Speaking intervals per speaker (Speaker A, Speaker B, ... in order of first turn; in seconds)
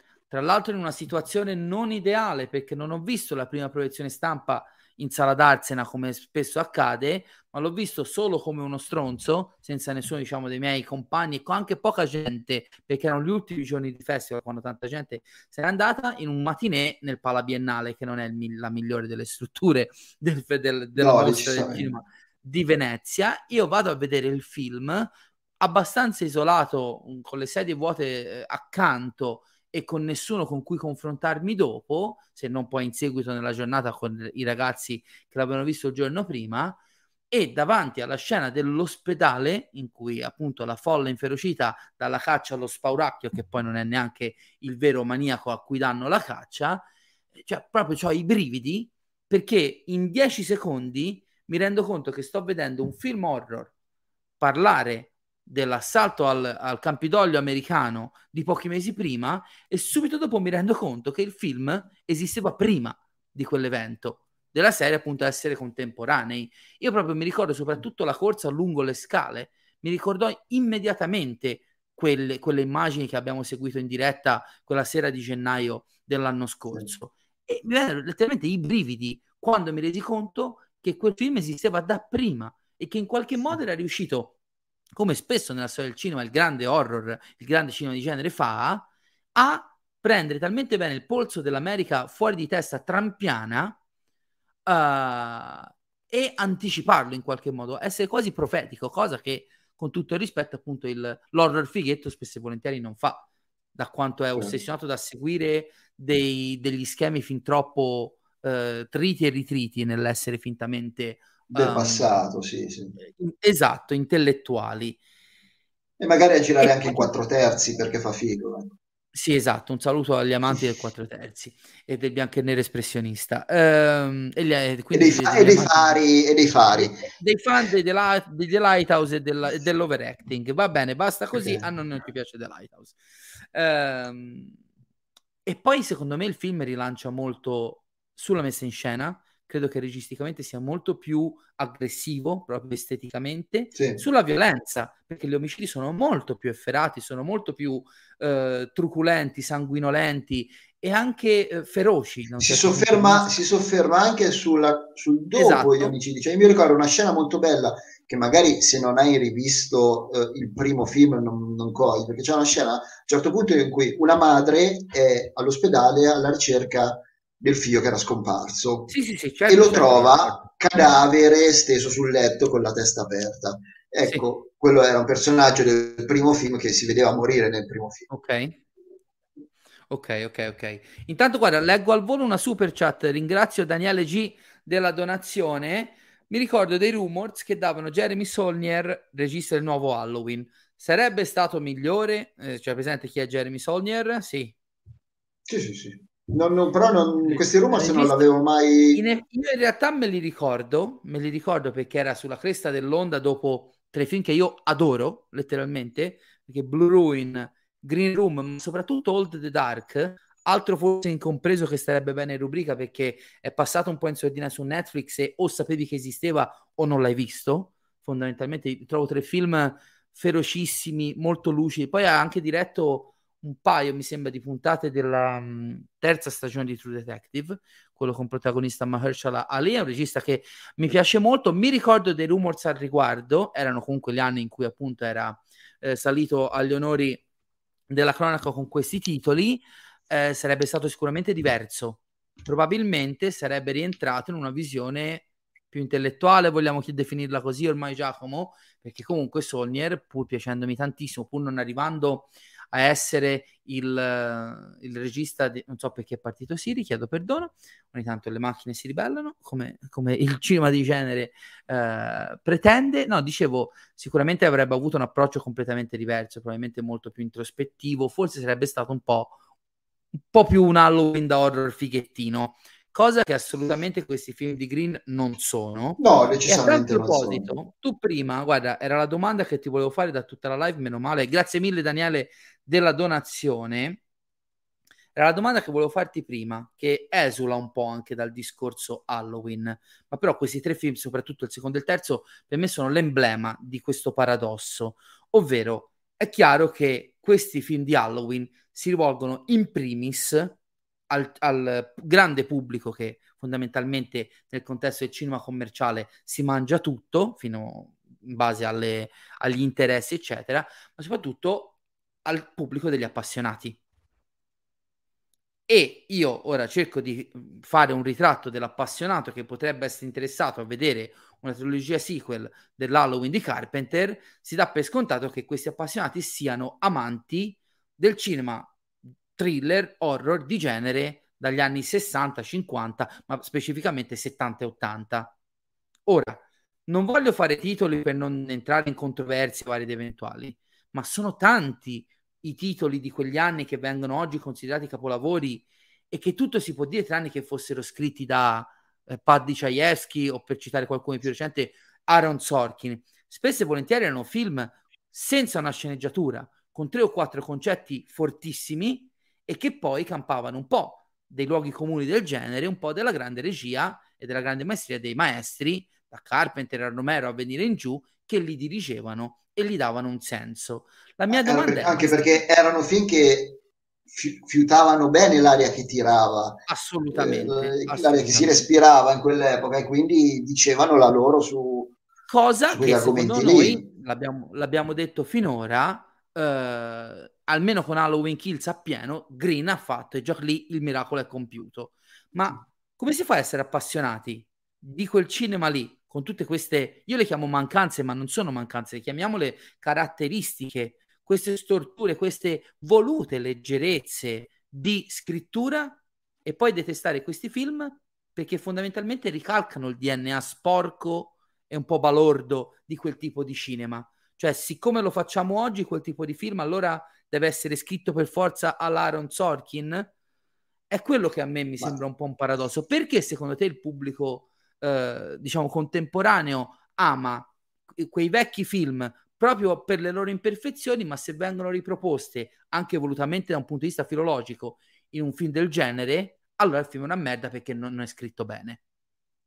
Speaker A: 0.3-36.8, 37.3-46.8, 47.4-53.7, 54.4-84.3, 84.9-93.8, 94.7-112.2, 113.0-115.0, 116.6-117.1, 119.1-126.0, 126.7-133.0, 133.5-134.6, 135.5-153.3, 155.3-155.9, 168.9-170.4, 178.1-178.6, 179.9-194.5, 197.2-198.3, 198.9-237.2, 237.9-269.4, 270.3-284.0, 285.1-300.6, 301.1-313.8, 315.7-328.7, 329.4-335.3, 336.1-372.4, 376.7-378.7, 382.3-420.1, 420.9-438.8
Speaker B: 21.0-21.9, 111.5-113.0, 116.0-118.7, 124.9-127.1, 131.3-131.6, 143.7-144.0, 152.4-168.9, 169.5-178.1, 195.5-199.0, 276.0-277.5, 371.3-373.6, 374.1-376.6, 377.1-381.9, 382.7-383.9